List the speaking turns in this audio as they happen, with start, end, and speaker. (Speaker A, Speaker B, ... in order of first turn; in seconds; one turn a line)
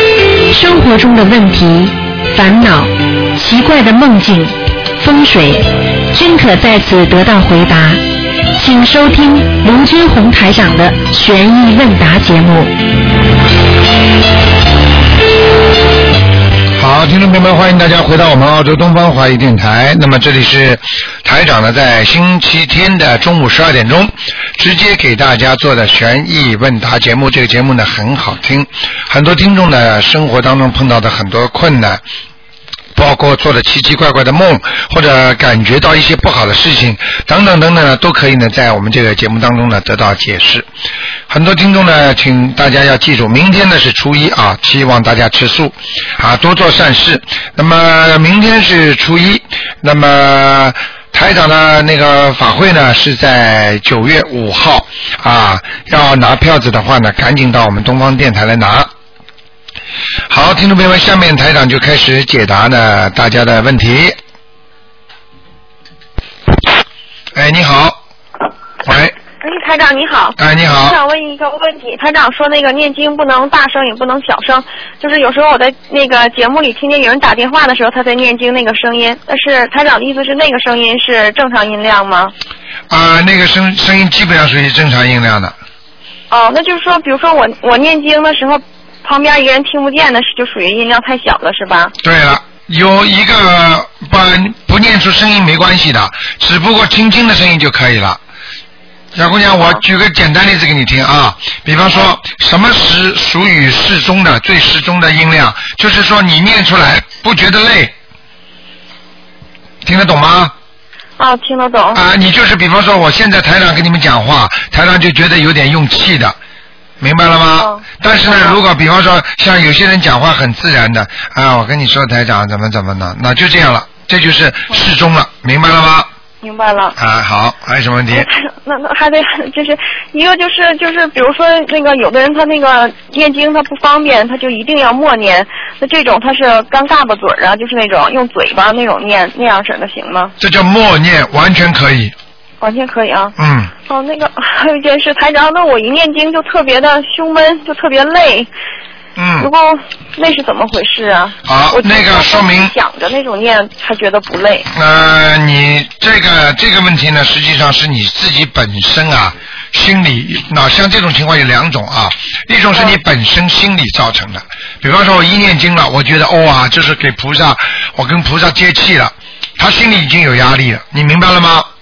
Speaker A: 0.5-8.0
Speaker A: 8.5-12.8
Speaker B: 16.8-32.0
Speaker B: 32.9-40.7
Speaker B: 41.3-58.9
Speaker B: 60.3-64.2
Speaker B: 67.3-68.0
Speaker B: 68.8-69.1
Speaker C: 69.4-82.3
Speaker B: 70.4-71.0
Speaker B: 82.9-85.5
Speaker C: 86.3-91.9
Speaker B: 92.0-98.2
Speaker B: 99.1-107.9
Speaker B: 109.8-110.5
Speaker C: 111.2-112.0
Speaker B: 111.9-116.3
Speaker B: 117.0-126.1
Speaker C: 117.6-118.5
Speaker C: 126.4-126.9
Speaker B: 127.0-128.3
Speaker C: 128.1-140.3
Speaker B: 140.4-142.1
Speaker C: 142.6-143.3
Speaker B: 143.4-143.7
Speaker C: 143.9-148.5
Speaker B: 149.2-149.5
Speaker C: 149.4-154.7
Speaker B: 151.4-152.7
Speaker B: 154.7-171.7